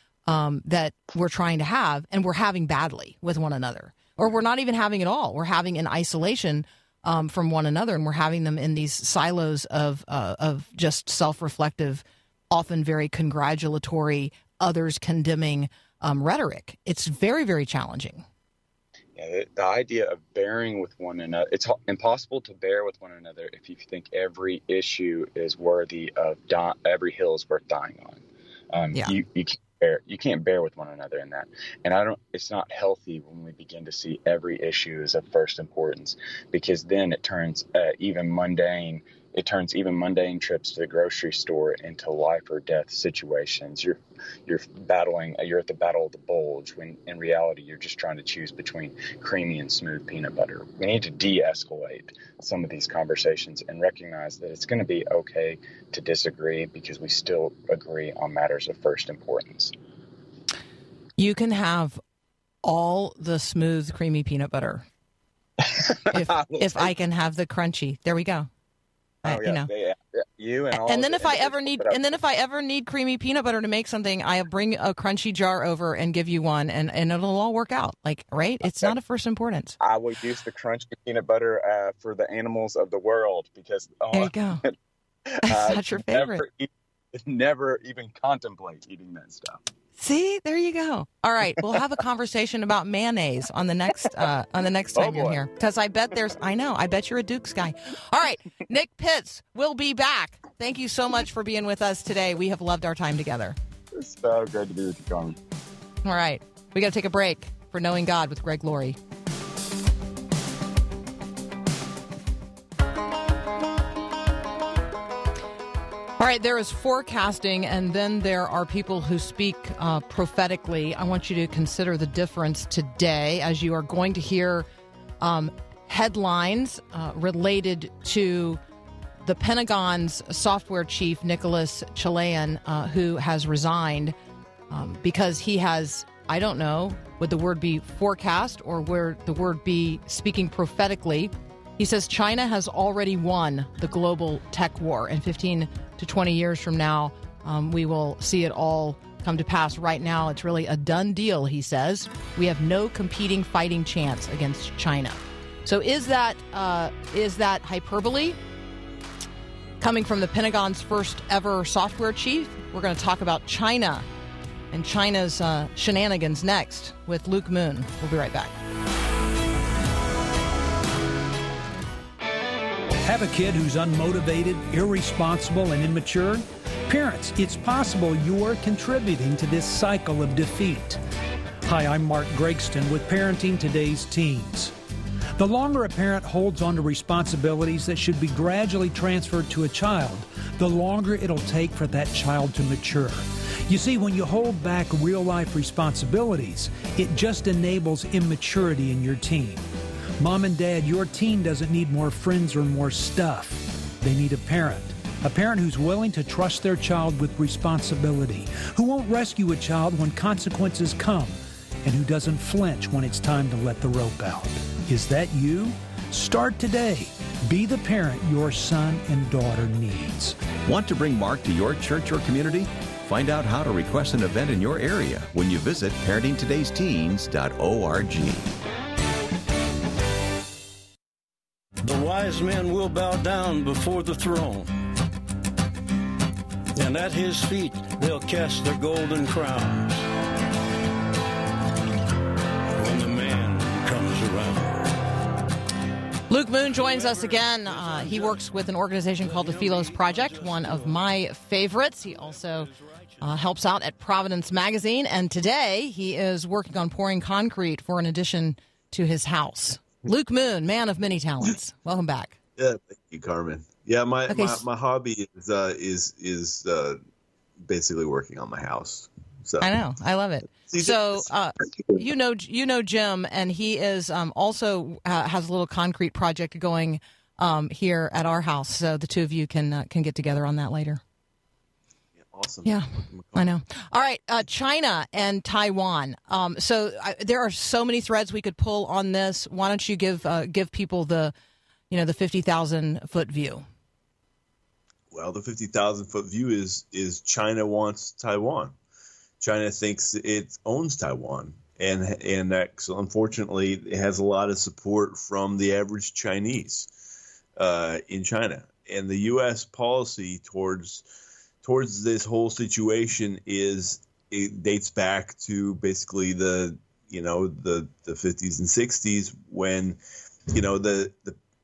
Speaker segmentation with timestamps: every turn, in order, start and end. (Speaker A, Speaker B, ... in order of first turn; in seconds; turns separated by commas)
Speaker A: 0.2-18.2, Speaker B: 19.1-59.7, Speaker A: 61.2-62.0, Speaker A: 62.6-64.8, Speaker B: 65.7-66.9, Speaker A: 66.1-68.5, Speaker A: 69.2-69.7, Speaker B: 69.2-72.1, Speaker A: 70.8-79.8, Speaker B: 79.8-84.8, Speaker A: 84.1-84.6, Speaker A: 85.4-86.4, Speaker B: 85.4-89.6, Speaker A: 90.0-103.5, Speaker B: 95.0-95.4, Speaker B: 103.9-105.4, Speaker A: 106.0-109.0, Speaker A: 116.2-124.7, Speaker A: 125.2-128.6, Speaker A: 129.2-134.2, Speaker A: 134.7-158.4, Speaker A: 159.8-164.1, Speaker A: 164.7-168.5, Speaker C: 173.0-181.0, Speaker C: 181.6-184.7, Speaker C: 185.4-199.7, Speaker C: 200.2-220.4, Speaker D: 220.6-228.4, Speaker E: 231.8-234.7, Speaker E: 236.7-240.0, Speaker E: 242.7-244.9, Speaker A: 246.3-262.3, Speaker E: 246.7-248.5, Speaker E: 249.2-251.1, Speaker E: 252.0-253.3, Speaker F: 262.6-267.0, Speaker A: 264.3-264.6, Speaker F: 267.6-269.8, Speaker A: 269.6-281.0, Speaker F: 270.5-271.3, Speaker F: 282.3-283.5, Speaker A: 282.6-291.3, Speaker A: 291.9-293.6, Speaker F: 295.1-298.7, Speaker F: 299.4-306.9, Speaker F: 307.6-311.0, Speaker F: 311.6-320.0, Speaker F: 320.5-321.4